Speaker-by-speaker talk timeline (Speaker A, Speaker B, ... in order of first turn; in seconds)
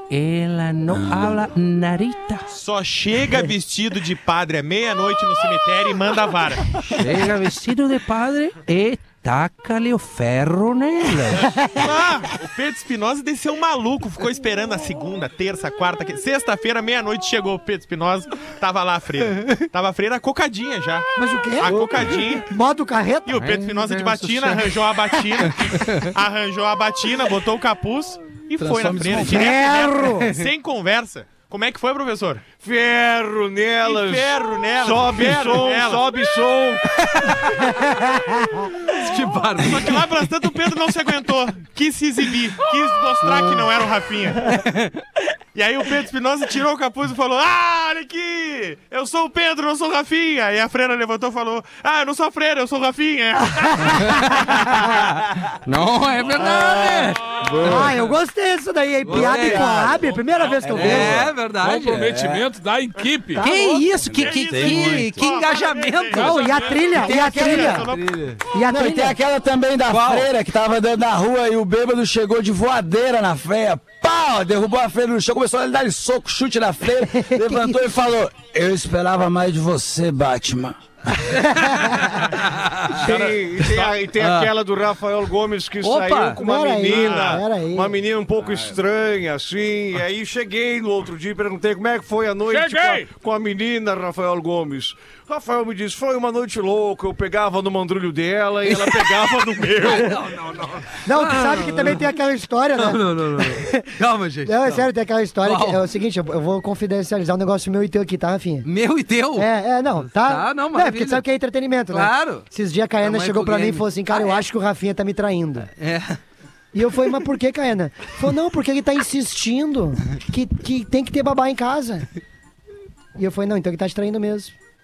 Speaker A: 0.1-2.5, 6.8-11.5, 23.3-24.8, 25.4-26.1, 37.1-37.5, 38.9-40.1, 44.5-44.9, 54.0-55.1, 55.6-57.8, 59.0-59.7, 60.7-62.1, 63.4-66.6, 67.4-68.4, 69.9-70.3, 81.4-83.0, 84.2-84.5, 85.8-86.4, 98.7-102.1, 102.8-104.9, 105.4-105.8, 108.6-111.2, 111.9-112.5, 113.0-114.4, 115.8-116.2
Speaker B: 0.9-1.3, 21.6-22.2, 28.6-29.6, 57.4-58.0, 59.1-60.0, 60.7-61.3, 62.0-62.5, 64.4-65.2, 67.0-67.9, 68.6-80.8
Speaker C: 2.5-6.9, 11.7-21.1, 21.6-22.5, 23.2-32.4, 33.8-36.1, 39.4-44.6, 45.5-54.8, 64.0-68.2, 86.9-87.4
Speaker D: 21.1-23.4, 29.2-30.3, 37.7-38.7, 57.6-61.3, 63.4-63.9, 66.1-67.9, 68.5-69.1, 77.1-77.8, 81.5-82.1, 86.4-87.9, 101.0-103.9, 104.5-108.7, 109.3-115.7, 116.7-122.1, 123.2-124.5
Speaker E: 32.6-36.8, 82.9-100.2
Speaker F: 60.0-63.4, 66.1-67.0, 92.5-93.1